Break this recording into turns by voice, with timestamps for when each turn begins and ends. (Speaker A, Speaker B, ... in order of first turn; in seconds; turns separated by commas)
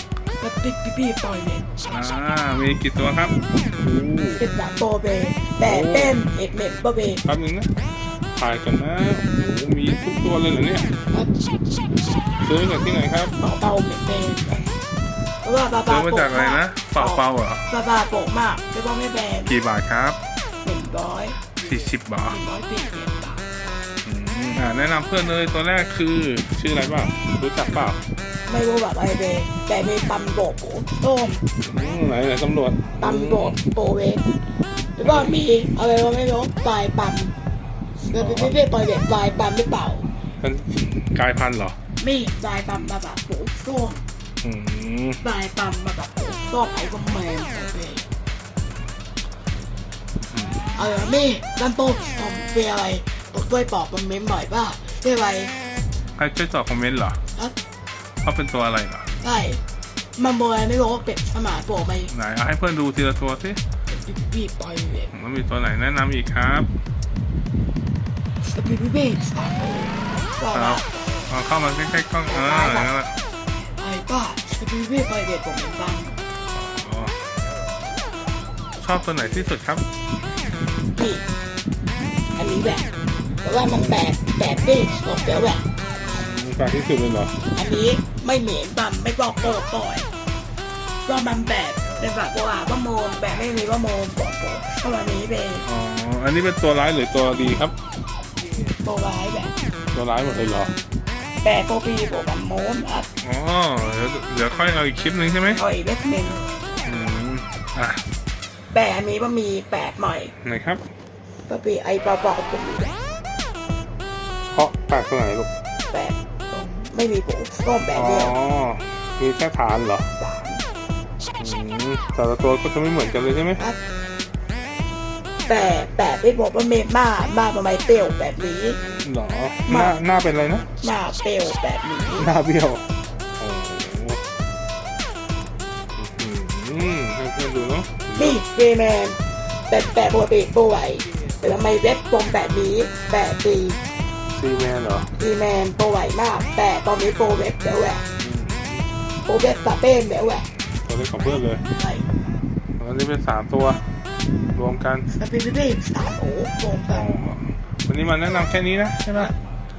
Speaker A: 0.4-1.9, Speaker B: 1.9-4.4, Speaker A: 4.3-7.2, Speaker B: 5.6-6.2, Speaker B: 7.2-7.7, Speaker B: 8.3-10.9, Speaker A: 11.1-11.5, Speaker B: 12.4-13.3, Speaker A: 13.4-14.8, Speaker A: 15.4-19.5, Speaker B: 15.8-17.7, Speaker B: 19.4-20.2, Speaker A: 20.6-21.6, Speaker B: 21.6-22.4, Speaker A: 22.3-23.4, Speaker B: 24.0-28.0, Speaker A: 28.5-31.4, Speaker B: 31.6-33.6, Speaker A: 33.0-34.3, Speaker A: 35.0-37.3, Speaker B: 35.0-35.4, Speaker A: 38.1-40.1, Speaker B: 38.1-38.5, Speaker B: 40.4-41.8, Speaker A: 42.0-44.0, Speaker B: 44.4-45.2, Speaker A: 45.2-48.0, Speaker B: 50.3-50.8, Speaker A: 50.7-55.5, Speaker B: 56.1-57.2, Speaker B: 58.2-59.1, Speaker A: 59.2-59.6, Speaker A: 60.2-62.1, Speaker B: 62.1-63.6, Speaker A: 63.9-65.1, Speaker B: 65.1-66.7, Speaker A: 68.4-71.1, Speaker B: 70.5-73.2, Speaker A: 72.3-72.9, Speaker A: 73.8-76.2, Speaker B: 76.6-77.2, Speaker B: 78.8-79.8, Speaker A: 81.0-81.2, Speaker A: 82.3-82.9, Speaker A: 83.4-85.7, Speaker B: 83.6-84.0, Speaker B: 86.0-87.4, Speaker A: 87.5-90.1, Speaker A: 91.0-95.7, Speaker B: 95.6-97.7, Speaker A: 98.8-99.5, Speaker B: 99.9-100.7, Speaker A: 101.4-103.1, Speaker B: 103.2-105.6, Speaker A: 105.5-106.4, Speaker B: 106.8-108.0, Speaker A: 108.7-110.3, Speaker B: 110.4-110.8, Speaker A: 111.5-113.0, Speaker B: 114.5-115.5, Speaker A: 115.9-118.3, Speaker B: 117.9-120.1, Speaker A: 120.2-120.6, Speaker B: 121.4-123.6, Speaker A: 125.5-128.8, Speaker B: 128.8-130.7, Speaker A: 129.7-129.9, Speaker A: 130.8-132.3, Speaker B: 132.2-132.8, Speaker B: 133.4-134.2, Speaker B: 136.0-138.4, Speaker A: 138.1-143.8, Speaker B: 144.3-145.1, Speaker A: 145.2-148.0, Speaker B: 148.2-148.8, Speaker A: 149.2-150.5, Speaker B: 150.8-151.6, Speaker A: 151.7-152.1, Speaker B: 152.8-153.9, Speaker B: 154.5-155.1, Speaker A: 155.2-157.1, Speaker B: 156.9-159.3